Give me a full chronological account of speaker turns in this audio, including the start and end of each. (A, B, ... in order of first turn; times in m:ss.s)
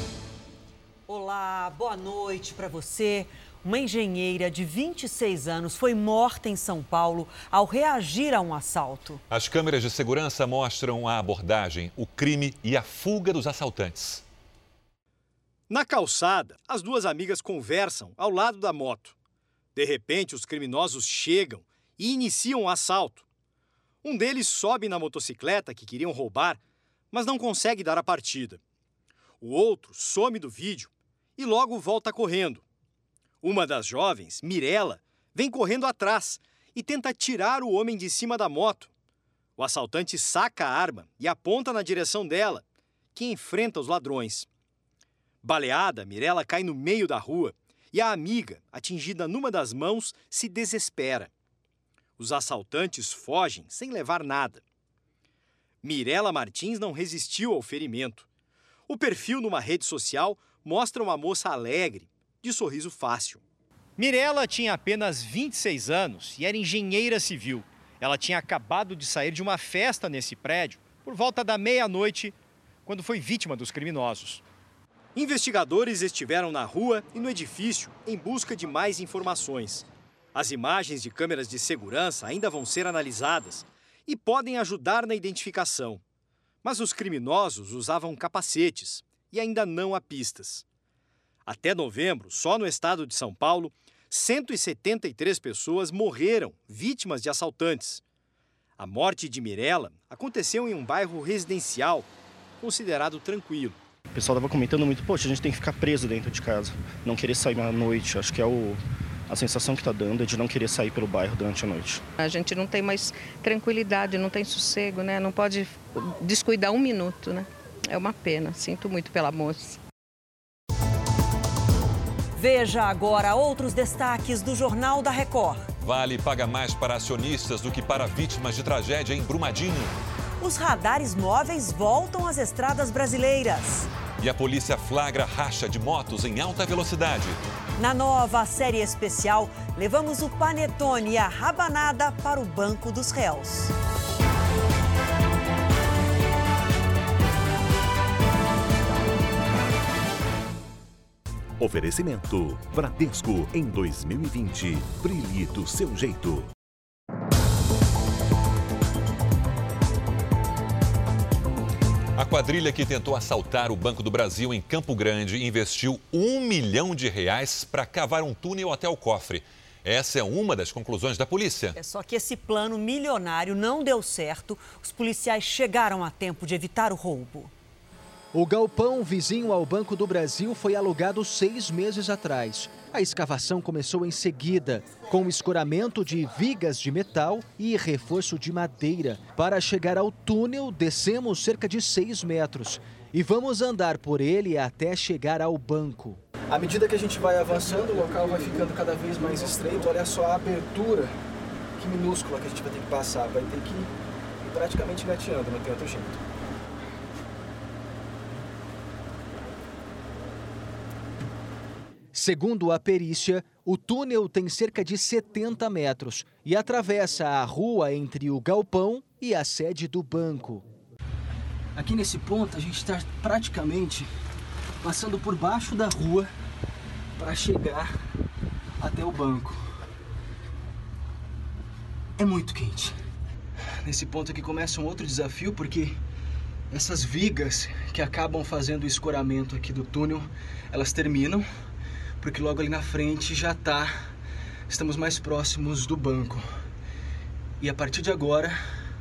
0:01.1-0:09.2 A
0:09.3-0:14.2 B
0:15.7-0:19.1 C
0:19.7-0:23.2 C
0:24.0-0:26.6 C
0:27.1-0:28.6 C
0:29.4-0:32.6 C
0:33.4-0:38.9 C
0:39.6-0:42.6 C
0:43.1-0:44.5 C
0:45.4-0:51.3 C
0:52.2-0:54.6 C
0:55.8-0:58.3 C
0:58.9-1:03.4 C
1:04.0-1:12.3 C
1:12.8-1:14.4 C
1:15.1-1:26.0 C
1:26.6-1:30.6 C
1:31.4-1:38.0 C
1:38.8-1:42.1 C
1:42.6-1:43.8 C
1:44.1-1:48.8 D
1:49.3-1:52.0 D
1:52.2-1:59.8 E
2:02.4-2:05.7 A
2:05.8-2:09.9 B
2:10.4-2:13.9 A
2:14.2-2:17.4 B
2:17.8-2:23.7 A
2:31.6-2:36.5 F
2:42.2-2:51.7 B
2:51.7-2:57.5 A
2:58.3-3:16.2 G
3:16.5-3:21.1 H
3:21.8-3:23.9 H
3:24.5-3:26.2 H
3:32.1-3:40.6 G
3:41.8-3:44.1 H
3:44.8-3:46.3 H
3:47.2-3:47.9 H
3:48.8-3:49.6 H
3:52.2-3:53.0 H
3:53.8-3:56.0 H
3:56.7-4:01.5 H
4:02.2-4:03.9 H
4:04.7-4:06.5 H
4:07.6-4:08.6 H